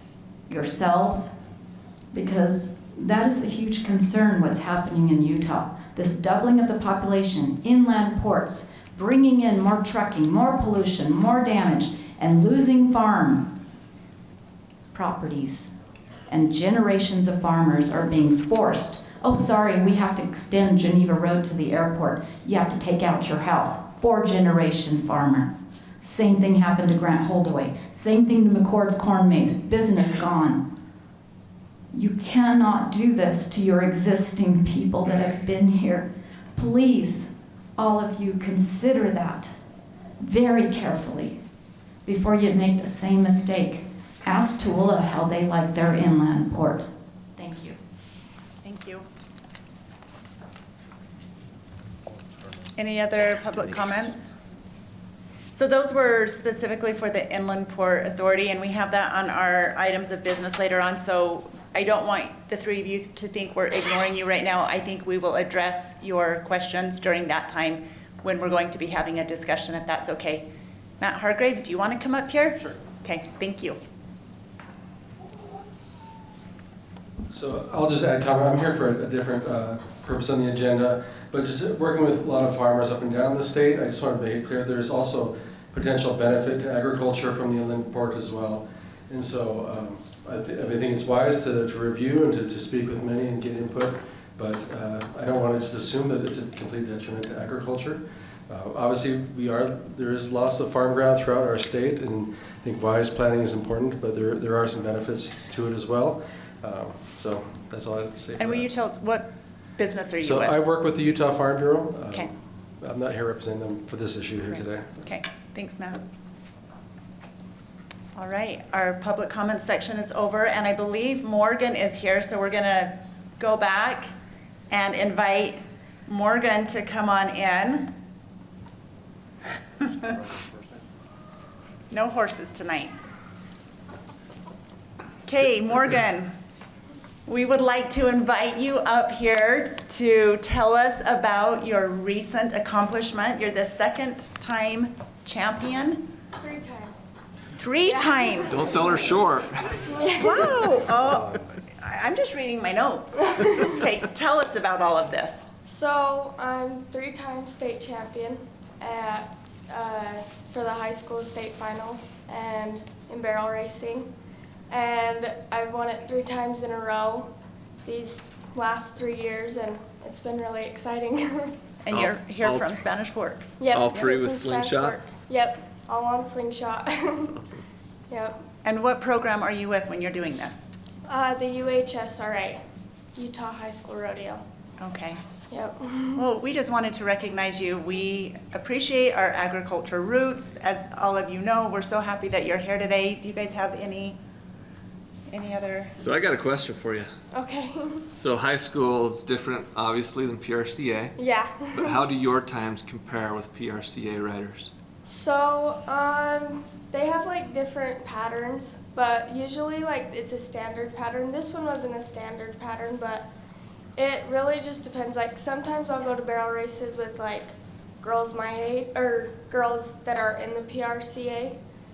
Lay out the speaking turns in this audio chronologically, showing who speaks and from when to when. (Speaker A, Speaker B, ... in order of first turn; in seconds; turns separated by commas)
Speaker A: 0.5-1.3, Speaker A: 2.1-13.5, Speaker A: 14.9-15.7, Speaker A: 16.3-30.6, Speaker A: 31.9-39.5, Speaker A: 40.2-41.4, Speaker A: 42.0-47.8, Speaker B: 48.6-49.1, Speaker B: 52.8-54.3, Speaker B: 55.5-70.5, Speaker B: 71.0-73.8, Speaker C: 77.3-108.7, Speaker B: 108.4-110.6, Speaker C: 110.2-115.0, Speaker B: 114.6-116.0, Speaker B: 118.2-124.1, Speaker B: 124.7-127.9, Speaker B: 130.0-130.3, Speaker B: 131.9-133.0, Speaker B: 135.3-136.3, Speaker B: 137.3-146.1, Speaker D: 146.4-146.9, Speaker B: 147.6-148.7, Speaker D: 147.8-149.0, Speaker E: 148.5-149.8, Speaker D: 149.8-150.8, Speaker B: 150.2-155.4, Speaker D: 155.7-164.1, Speaker D: 164.7-167.3, Speaker D: 167.8-171.6, Speaker B: 171.8-174.1, Speaker E: 171.9-172.8, Speaker D: 173.6-177.5, Speaker E: 173.7-175.0, Speaker D: 178.1-178.4, Speaker B: 178.6-180.7, Speaker D: 181.1-182.6, Speaker D: 183.2-184.4, Speaker B: 184.8-185.2, Speaker D: 185.5-186.2, Speaker B: 186.2-194.2, Speaker B: 195.3-196.0, Speaker E: 196.0-197.1, Speaker D: 197.3-198.1, Speaker E: 198.2-201.2, Speaker D: 201.2-202.0, Speaker E: 201.7-204.7, Speaker D: 205.1-213.3, Speaker D: 214.0-221.6